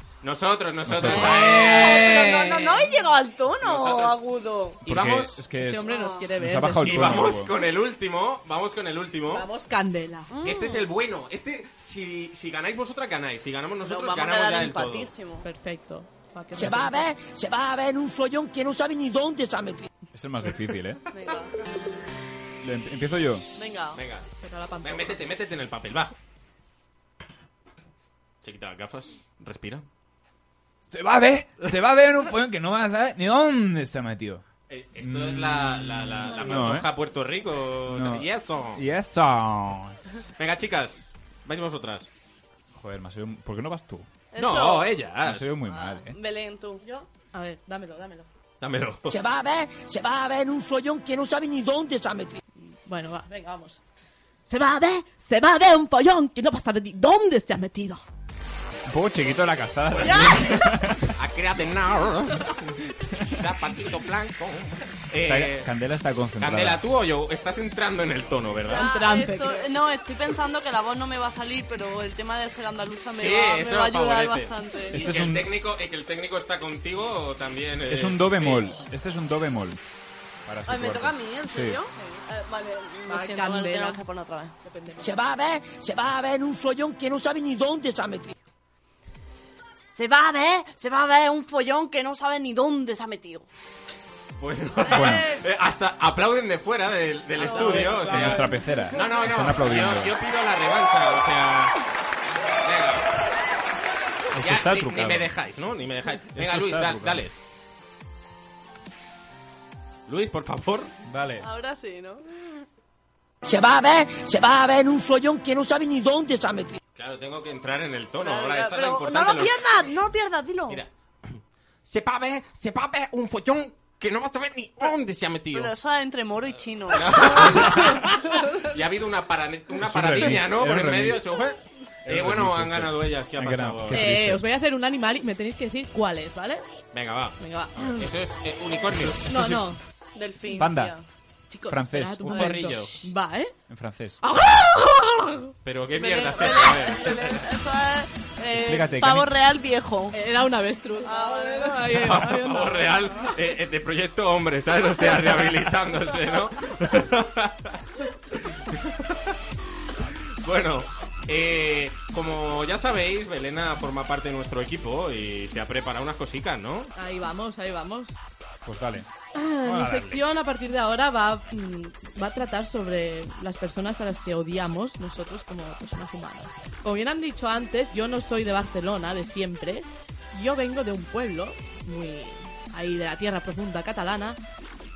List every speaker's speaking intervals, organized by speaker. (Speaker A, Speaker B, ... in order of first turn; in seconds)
Speaker A: 0.2-2.6, 3.6-4.2, 4.8-5.4, 6.8-9.5, 10.4-15.1, 23.9-24.3, 24.8-26.2, 28.4-29.9, 34.7-38.8, 40.4-42.1, 44.4-45.5, 48.6-49.1, 59.9-65.7, 66.4-68.9, 73.1-78.7, 94.4-101.8, 102.6-103.1, 104.4-107.3, 110.1-110.9, 117.0-119.8, 120.7-125.8, 126.9-134.2, 136.9-139.5, 142.3-143.1, 145.7-147.4, 151.9-157.8, 158.7-159.0, 160.4-166.9
Speaker B: 0.9-1.4, 4.8-7.5, 20.1-21.0, 22.6-23.5, 30.9-34.4, 35.0-36.9, 37.9-40.0, 42.7-44.1, 45.2-46.2, 58.9-61.1, 65.2-66.8, 74.9-75.5, 77.9-79.8, 80.5-81.8, 94.9-95.3, 97.5-100.1, 104.3-105.3, 106.3-107.2, 111.1-111.5, 129.8-131.2, 132.1-134.4, 139.3-139.6, 140.5-140.9, 141.7-142.8, 143.7-144.2, 148.5-149.3, 168.7-169.1, 169.6-170.2
Speaker C: 1.0-4.8, 5.8-6.3, 10.3-10.9, 13.8-15.5, 21.1-21.6, 23.6-24.0, 44.3-44.9, 45.7-46.8, 68.7-75.1, 80.7-84.5, 89.9-93.5, 95.0-95.2, 97.4-98.4, 111.4-112.4, 118.2-120.8, 125.5-128.2, 140.2-141.1, 145.9-150.2, 151.0-151.9
Speaker D: 5.6-7.3, 9.3-10.4, 15.4-17.1, 24.4-25.2, 46.8-48.3, 52.9-53.8, 54.5-58.0, 60.0-60.5, 68.7-69.7, 83.1-84.0, 84.6-85.1, 97.7-98.1, 133.9-136.6, 137.4-138.1, 139.3-139.8, 141.5-143.5, 144.2-145.5, 150.1-153.3, 167.0-168.2, 169.3-184.4
Speaker E: 16.6-19.9, 49.1-52.4, 85.0-88.3, 113.5-116.8